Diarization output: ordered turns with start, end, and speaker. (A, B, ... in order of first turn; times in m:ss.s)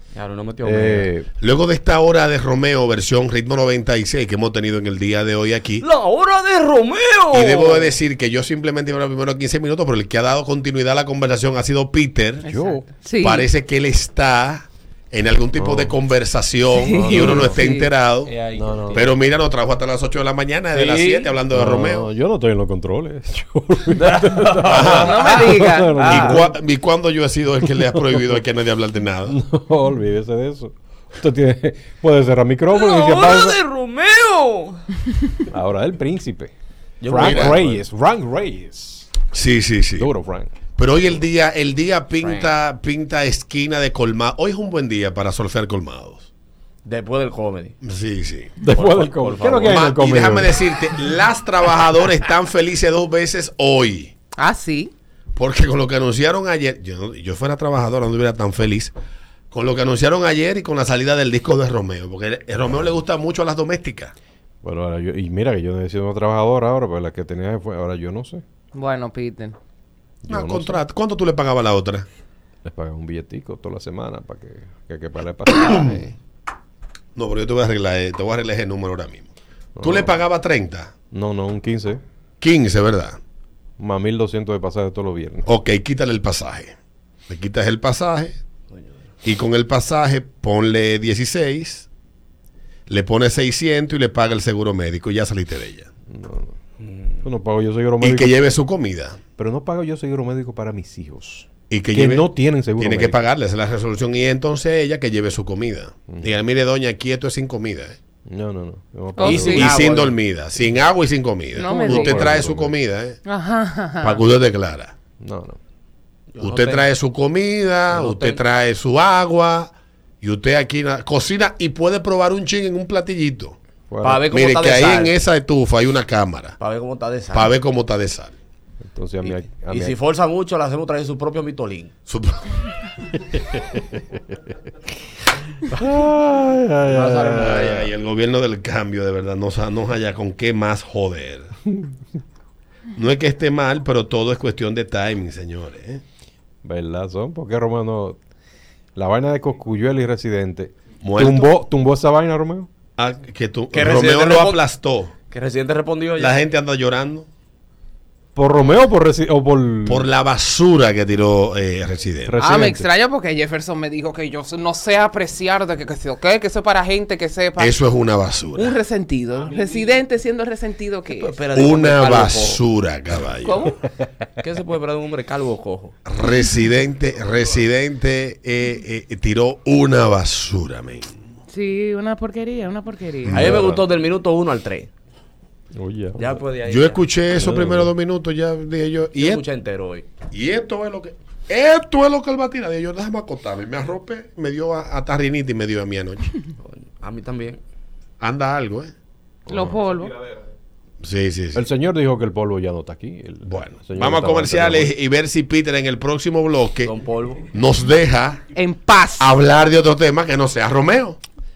0:00.1-0:01.1 A
0:00.6-0:01.3 B
0:01.4-0:05.9 C
0:05.8-0:08.0 A
0:07.3-0:12.5 C
0:12.5-0:12.8 B
0:12.5-0:13.5 D
0:13.2-0:18.3 C
0:15.6-0:15.9 B
0:16.8-0:17.9 D
0:16.9-0:17.6 B
0:18.2-0:19.2 A
0:18.6-0:19.1 B
0:18.9-0:22.1 C
0:20.7-0:21.4 A
0:21.5-0:26.6 B
0:23.9-0:26.4 A
0:24.6-0:25.5 C
0:24.9-0:26.0 D
0:26.0-0:29.4 C
0:27.6-0:28.4 B
0:29.3-0:33.6 B
0:32.7-0:34.8 A
0:35.5-0:36.5 B
0:37.0-0:37.8 A
0:37.0-0:39.1 B
0:37.2-0:37.6 C
0:39.3-0:40.1 C
0:40.0-0:40.5 B
0:40.8-0:46.3 C
0:42.2-0:42.6 A
0:46.8-0:47.8 A
0:47.8-0:48.6 C
0:48.6-0:50.7 B
0:48.7-0:49.9 A
0:49.6-0:54.1 C
0:54.4-0:54.9 D
0:55.4-0:58.9 C
0:59.5-1:04.1 C
1:04.6-1:08.4 B
1:08.7-1:09.6 D
1:10.2-1:10.8 B
1:10.3-1:12.1 C
1:12.6-1:16.1 B
1:17.2-1:20.9 C
1:19.8-1:20.2 B
1:21.1-1:22.0 B
1:22.4-1:23.2 C
1:23.8-1:25.5 B
1:25.4-1:26.7 C
1:27.3-1:28.4 C
1:29.2-1:31.9 C
1:32.9-1:35.9 C
1:36.1-1:36.5 B
1:36.8-1:37.1 A
1:37.2-1:38.4 B
1:38.0-1:39.2 C
1:39.4-1:43.2 B
1:41.7-1:48.0 C
1:48.3-1:49.7 B
1:49.2-1:49.8 D
1:49.2-1:50.2 A
1:49.2-1:53.2 C
1:51.6-1:52.4 D
1:51.6-1:52.8 B
1:53.2-1:54.2 D
1:54.0-1:54.9 C
1:55.2-1:55.6 B
1:56.3-1:56.9 A
1:56.4-2:03.6 C
1:57.9-1:58.4 A
2:03.9-2:04.3 B
2:04.0-2:05.1 A
2:04.3-2:06.6 C
2:06.6-2:07.6 A
2:07.3-2:08.3 C
2:08.9-2:10.0 B
2:09.2-2:11.9 A
2:12.1-2:12.6 C
2:13.3-2:14.2 B
2:15.7-2:17.9 B
2:16.9-2:21.5 C
2:23.0-2:26.0 C
2:26.6-2:28.2 B
2:29.0-2:32.7 B
2:31.0-2:31.5 C
2:33.0-2:35.1 C
2:33.7-2:34.6 A
2:35.3-2:36.4 A
2:36.2-2:37.3 C
2:38.4-2:40.1 B
2:39.9-2:42.4 C
2:42.2-2:42.9 B
2:42.4-2:47.8 D
2:47.6-2:48.8 C
2:48.6-2:51.3 D
2:49.4-2:50.0 A
2:51.1-2:52.6 A
2:51.6-2:53.8 C
2:53.4-2:53.8 D
2:54.4-2:55.9 A
2:56.1-3:01.1 C
3:01.5-3:03.5 D
3:03.2-3:03.8 C
3:03.3-3:04.9 A
3:03.4-3:03.6 B
3:05.7-3:06.4 B
3:06.2-3:07.1 A
3:06.6-3:09.4 C
3:07.3-3:08.0 B
3:09.2-3:10.1 A
3:10.3-3:16.4 C
3:16.6-3:17.6 A
3:18.2-3:18.9 C
3:19.5-3:19.9 B
3:19.5-3:20.2 D
3:21.0-3:21.7 C
3:21.6-3:24.9 B
3:23.4-3:26.9 C
3:26.8-3:27.5 A
3:27.5-3:28.4 C
3:28.6-3:29.3 D
3:29.2-3:31.2 C